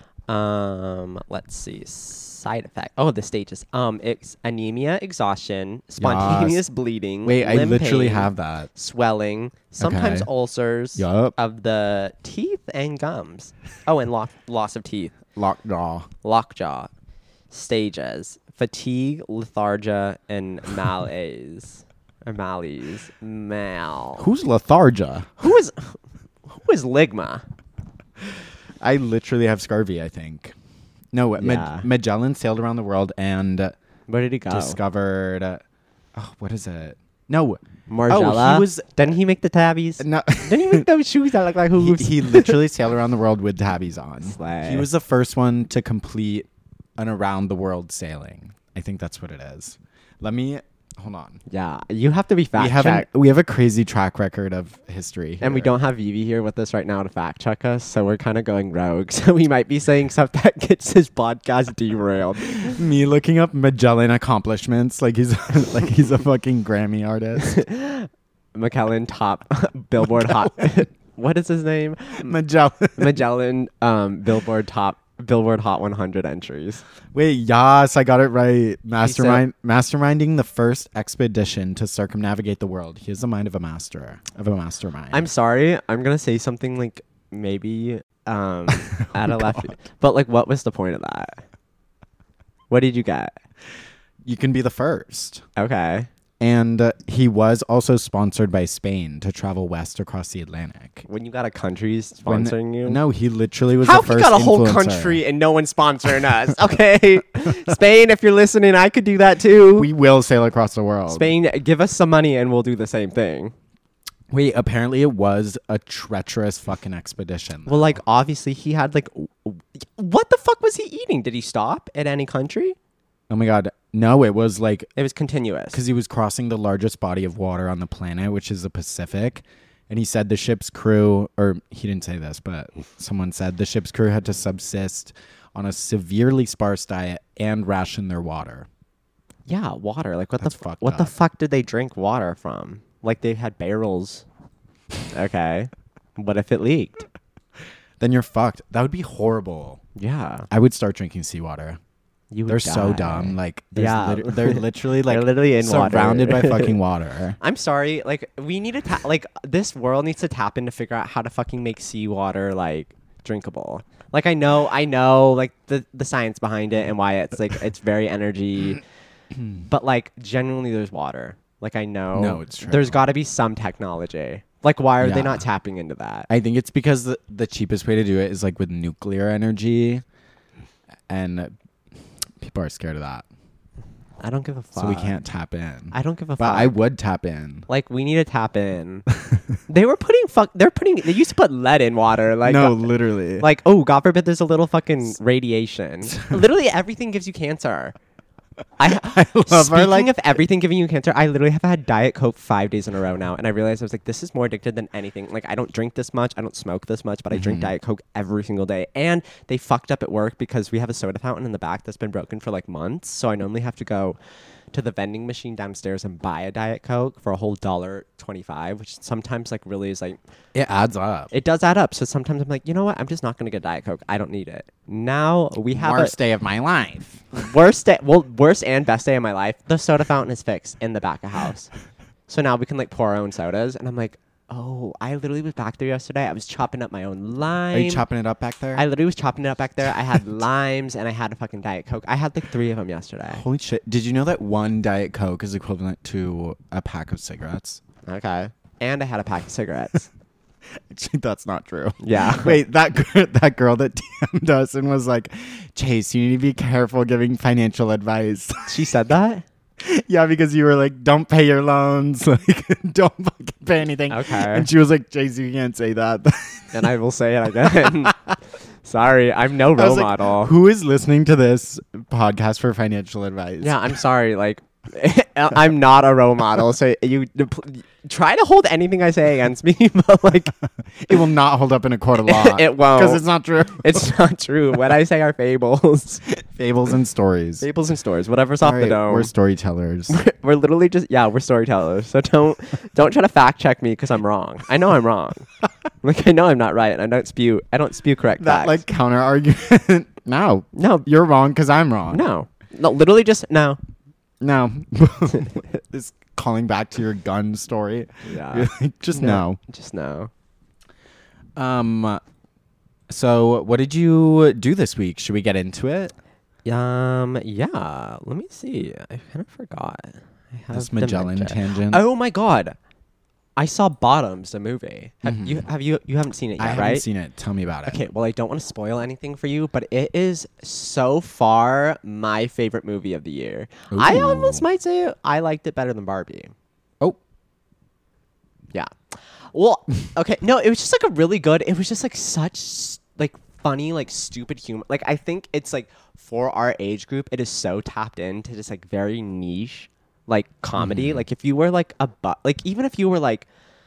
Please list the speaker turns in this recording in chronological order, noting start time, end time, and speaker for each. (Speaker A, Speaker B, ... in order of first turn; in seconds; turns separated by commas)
Speaker A: 0.3-15.1, Speaker B: 6.0-6.6, Speaker B: 7.2-8.7, Speaker B: 9.8-10.3, Speaker B: 10.9-11.3, Speaker B: 15.3-16.1, Speaker A: 16.2-16.9, Speaker A: 17.5-24.3, Speaker B: 24.2-25.3, Speaker A: 25.4-27.4, Speaker B: 28.8-30.5, Speaker B: 31.1-33.7, Speaker A: 31.4-31.9, Speaker A: 34.1-34.8, Speaker B: 34.5-35.6, Speaker B: 36.1-39.1, Speaker A: 37.9-42.6, Speaker B: 40.0-40.9, Speaker B: 41.8-51.4, Speaker A: 44.2-44.9, Speaker A: 51.5-53.1, Speaker B: 52.5-55.7, Speaker A: 55.4-62.8, Speaker B: 62.6-67.6, Speaker A: 67.4-72.3, Speaker B: 72.2-73.2, Speaker A: 73.0-76.8, Speaker B: 77.1-85.3, Speaker A: 79.0-79.4, Speaker A: 85.1-91.4, Speaker B: 89.1-89.7, Speaker A: 92.7-93.3, Speaker B: 94.2-95.4, Speaker A: 95.5-96.1, Speaker B: 96.4-101.0, Speaker A: 101.1-103.0, Speaker B: 102.2-105.2, Speaker A: 103.8-109.9, Speaker B: 109.8-111.3, Speaker A: 111.1-113.5, Speaker B: 114.3-118.0, Speaker A: 117.7-122.8, Speaker B: 123.3-124.9, Speaker A: 125.0-125.8, Speaker B: 125.7-138.7, Speaker A: 139.4-144.2, Speaker B: 140.4-141.2, Speaker A: 145.1-147.1, Speaker B: 148.0-149.8, Speaker A: 150.0-150.5, Speaker B: 150.5-151.8, Speaker A: 152.3-156.8, Speaker B: 152.5-157.4, Speaker A: 157.4-168.8, Speaker A: 169.7-176.3, Speaker B: 172.1-173.0, Speaker B: 175.0-175.4, Speaker B: 176.3-180.0, Speaker B: 181.1-181.5, Speaker B: 182.4-183.2, Speaker A: 184.2-185.2, Speaker B: 184.8-187.7, Speaker A: 185.9-186.8, Speaker A: 187.7-189.1, Speaker A: 189.7-197.9, Speaker B: 192.4-193.5, Speaker A: 198.8-214.2, Speaker B: 198.8-200.2, Speaker B: 207.3-207.7, Speaker A: 214.7-220.2, Speaker B: 220.5-221.3, Speaker A: 221.3-226.1, Speaker B: 225.7-227.2, Speaker A: 227.3-231.7, Speaker A: 232.3-238.0, Speaker B: 237.7-238.8, Speaker A: 238.7-243.4, Speaker B: 243.3-247.8, Speaker A: 248.1-250.1, Speaker B: 250.9-258.9, Speaker A: 252.0-252.6, Speaker A: 258.7-259.4, Speaker B: 259.8-266.9, Speaker A: 264.1-264.7, Speaker A: 266.7-268.1, Speaker B: 267.7-268.1, Speaker A: 268.8-270.5, Speaker B: 269.8-274.0, Speaker A: 273.6-280.5, Speaker B: 280.9-284.1, Speaker A: 282.2-283.2, Speaker A: 283.7-286.2, Speaker B: 286.4-287.6, Speaker A: 287.6-289.3, Speaker B: 288.6-290.2, Speaker A: 290.1-295.5, Speaker A: 296.0-298.8, Speaker B: 298.4-302.2, Speaker A: 300.7-301.1, Speaker A: 302.1-303.8, Speaker B: 304.4-309.6, Speaker A: 308.2-310.3, Speaker B: 311.6-312.2, Speaker B: 313.1-316.1, Speaker A: 316.6-322.8, Speaker B: 320.7-322.0, Speaker A: 323.6-327.0, Speaker B: 325.2-325.7, Speaker B: 326.6-328.0, Speaker A: 327.9-336.5, Speaker B: 333.9-334.6, Speaker A: 338.7-353.5, Speaker B: 350.8-351.2